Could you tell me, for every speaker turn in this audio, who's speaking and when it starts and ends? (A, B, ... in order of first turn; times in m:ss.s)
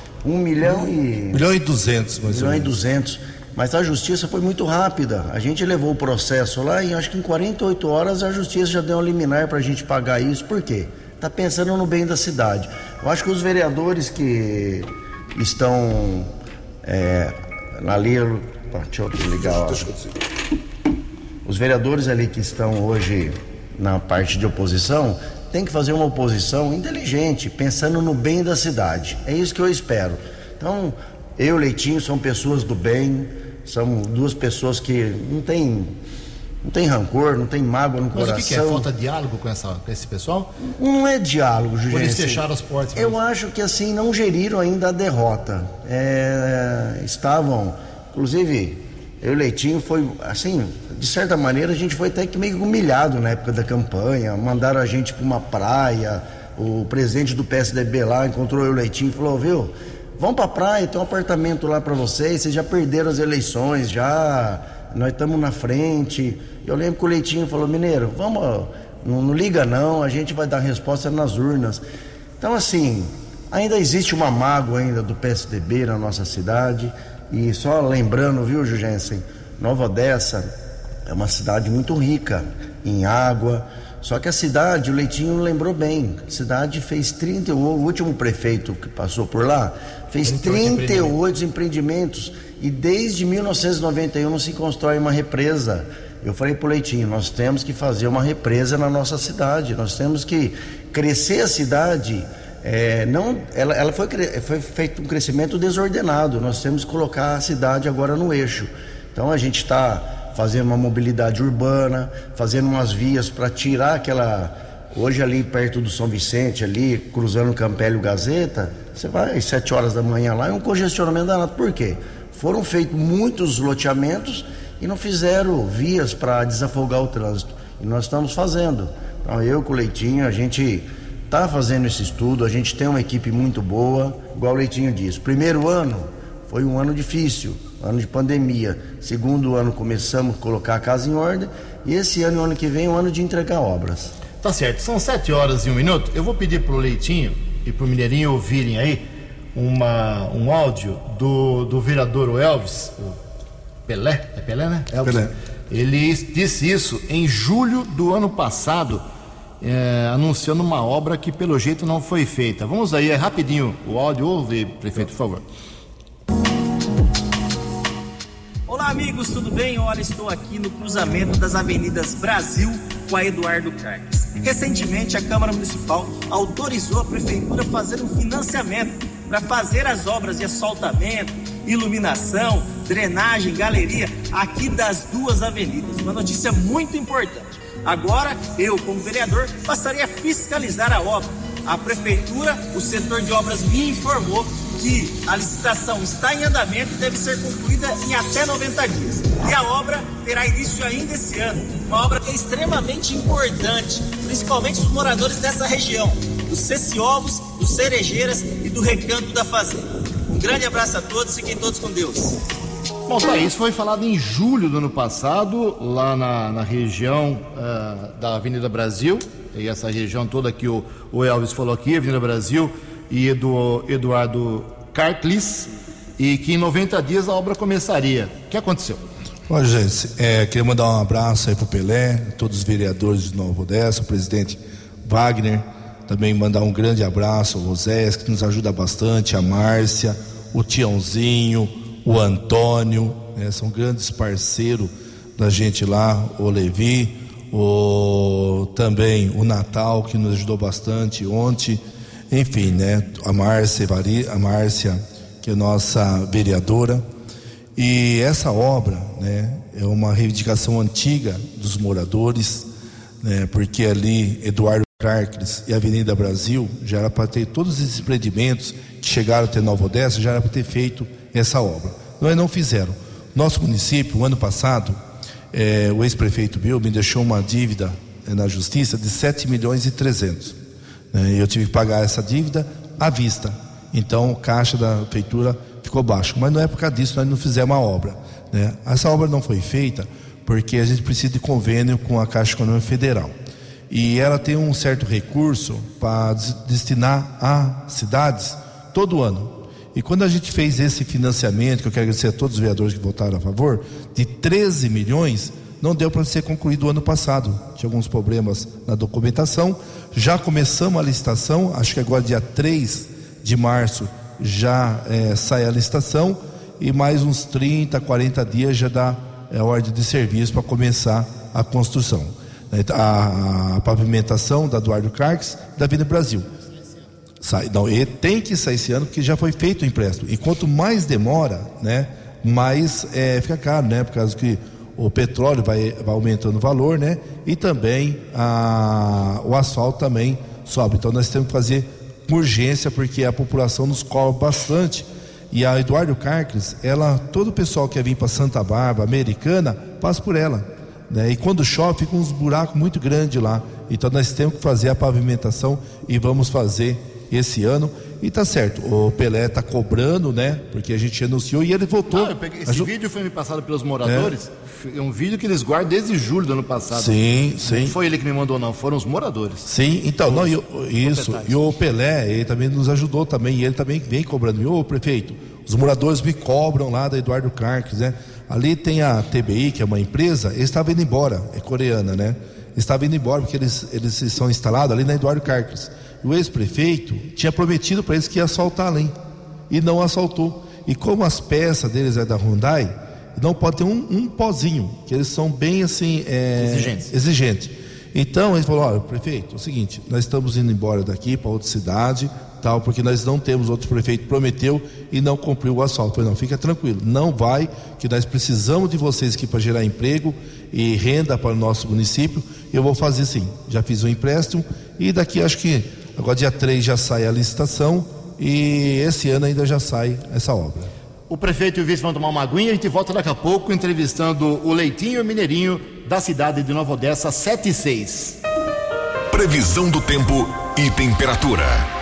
0:00.2-0:01.4 A
0:01.3-0:02.8 B
0:02.2-0:16.3 A
0:16.8-0:20.0 A
0:21.4-0:35.9 A
0:36.6-0:38.9 A
0:38.1-0:40.5 C
0:40.6-0:42.4 A
0:41.9-0:43.2 C
0:43.0-1:11.8 A
1:12.4-1:20.5 A
1:21.0-2:24.1 A
1:30.2-1:31.2 C
2:24.4-2:29.0 C
2:29.5-2:33.2 C
2:33.9-2:39.0 C
2:35.0-2:35.3 B
2:39.6-2:45.4 C
2:48.7-3:32.4 D
3:33.1-3:49.1 C
3:49.5-4:17.1 B
4:17.8-4:22.7 B
4:23.2-4:35.0 B
4:35.5-4:40.6 B
4:41.1-4:53.4 B
4:53.9-5:26.5 B
5:27.4-6:02.9 B
6:02.1-6:09.7 C
6:04.0-6:04.3 B
6:06.9-6:08.0 B
6:09.6-6:29.1 B
6:10.2-6:11.6 C
6:29.7-7:00.9 B
6:36.6-6:37.1 C
7:01.3-7:08.4 C
7:09.3-7:11.9 E